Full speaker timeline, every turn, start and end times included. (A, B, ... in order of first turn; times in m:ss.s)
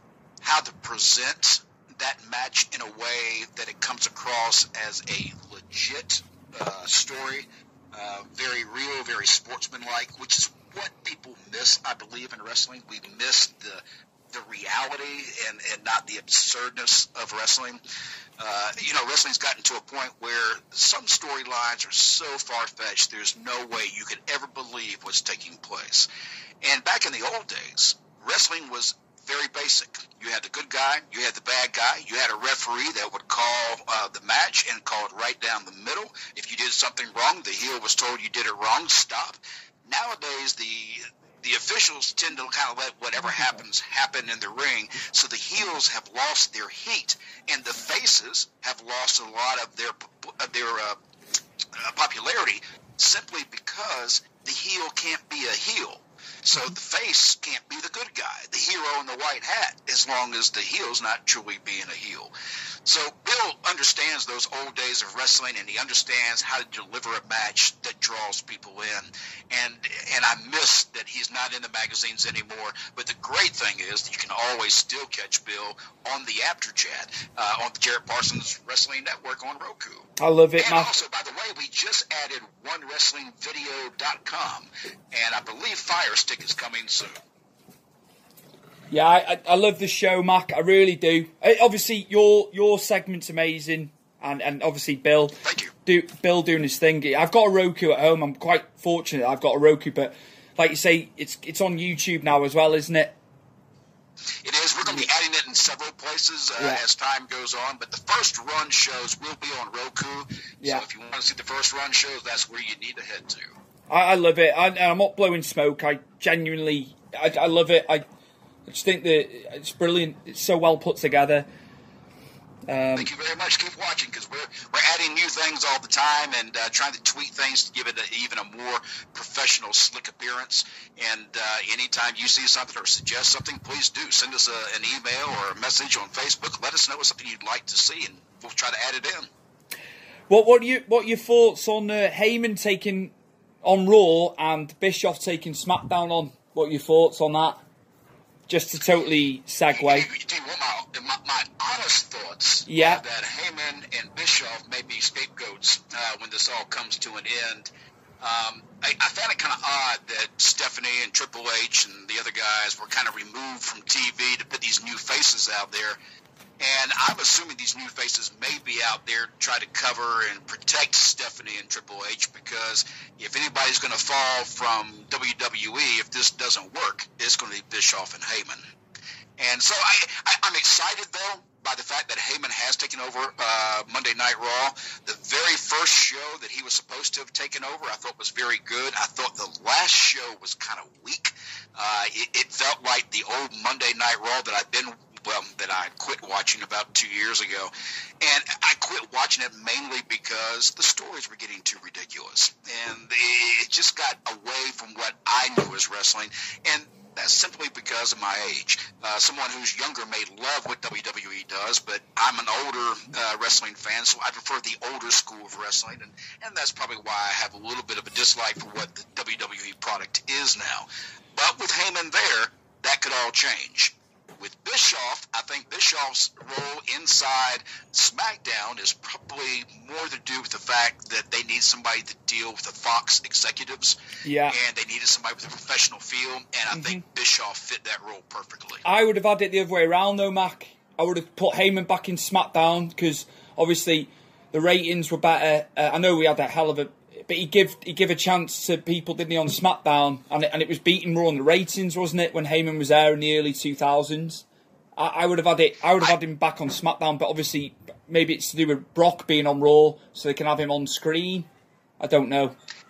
0:00.4-0:17.8 A
0:18.4-0:26.1 A
0:26.6-0:51.0 A
0:51.7-1:02.3 A
1:02.8-1:27.2 A
1:20.2-1:20.9 B
1:28.9-1:43.2 B
1:35.4-1:35.7 A
1:44.4-1:53.6 A
1:53.9-1:58.0 B
1:58.7-2:01.5 B
2:02.7-2:03.1 B
2:03.0-2:19.3 A
2:20.3-2:27.6 B
2:28.5-2:30.1 B
2:29.7-2:37.7 A
2:32.7-2:33.0 B
2:38.2-2:46.0 A
2:46.6-2:58.6 A
2:59.4-3:54.0 A
3:54.2-3:54.6 B
3:54.5-3:58.8 A
3:56.7-3:57.0 B
3:58.8-4:14.4 B
4:15.0-4:21.5 B
4:22.0-4:22.6 B